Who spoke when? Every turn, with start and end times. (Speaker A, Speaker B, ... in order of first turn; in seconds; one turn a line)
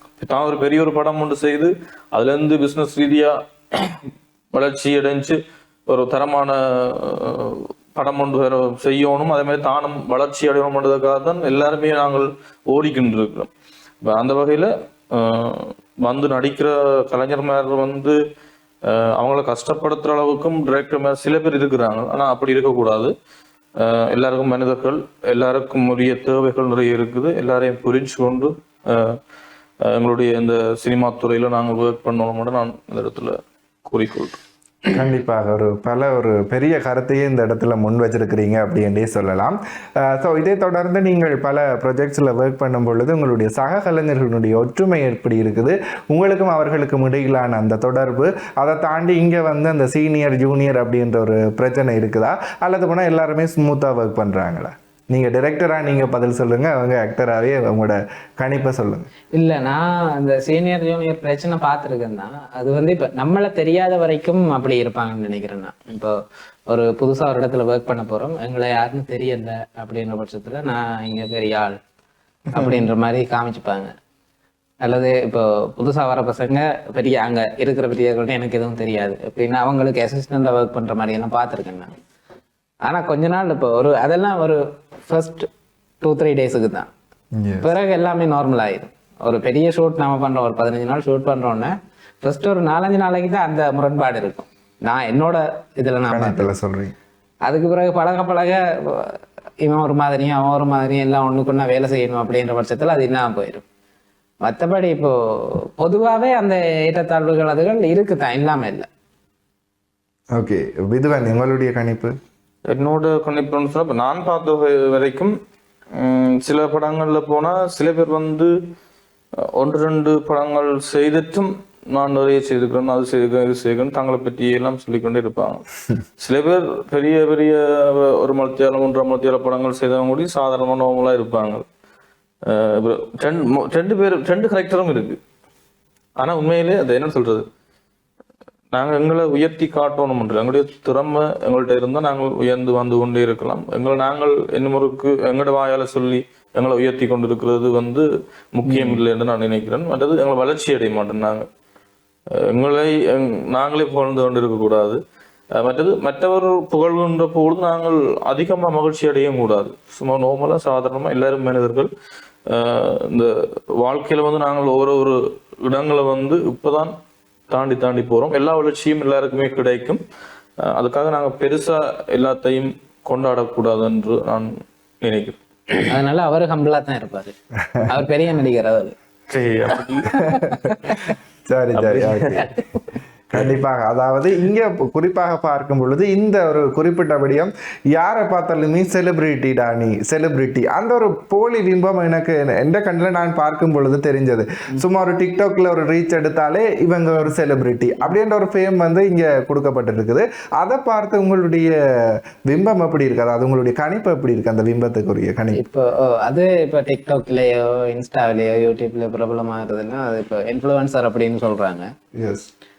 Speaker A: 0.2-13.5
Speaker A: 14.1-18.2
Speaker A: 18.9-23.1
Speaker A: 23.8-29.2
Speaker A: 29.8-34.4
Speaker B: 35.0-59.1
Speaker C: 59.3-66.1
Speaker C: 66.7-71.8
Speaker C: 72.5-73.9
Speaker C: 74.8-81.9
Speaker C: 82.8-85.5
Speaker C: 86.0-86.9
Speaker B: 87.3-87.7
Speaker C: 87.6-96.5
Speaker B: 96.1-96.9
Speaker C: 97.5-103.7
Speaker C: 104.4-108.9
Speaker B: 110.3-112.2
Speaker A: 112.7-115.3
Speaker A: 115.9-118.5
Speaker A: 119.4-125.7
Speaker A: 126.2-131.6
Speaker A: 132.4-135.2
Speaker A: 136.2-137.4
Speaker A: 138.7-151.5
Speaker C: 148.7-149.0
Speaker A: 152.3-155.0
Speaker A: 155.6-161.9
Speaker A: 162.5-166.9
Speaker A: 167.5-170.0
Speaker A: 170.6-175.7
Speaker C: 175.8-177.3
Speaker C: 177.8-178.9
Speaker A: 179.3-180.1
Speaker C: 180.0-181.0
Speaker B: 181.5-182.5
Speaker A: 181.8-182.5
Speaker B: 183.3-205.6
Speaker C: 205.5-211.9
Speaker B: 212.2-212.5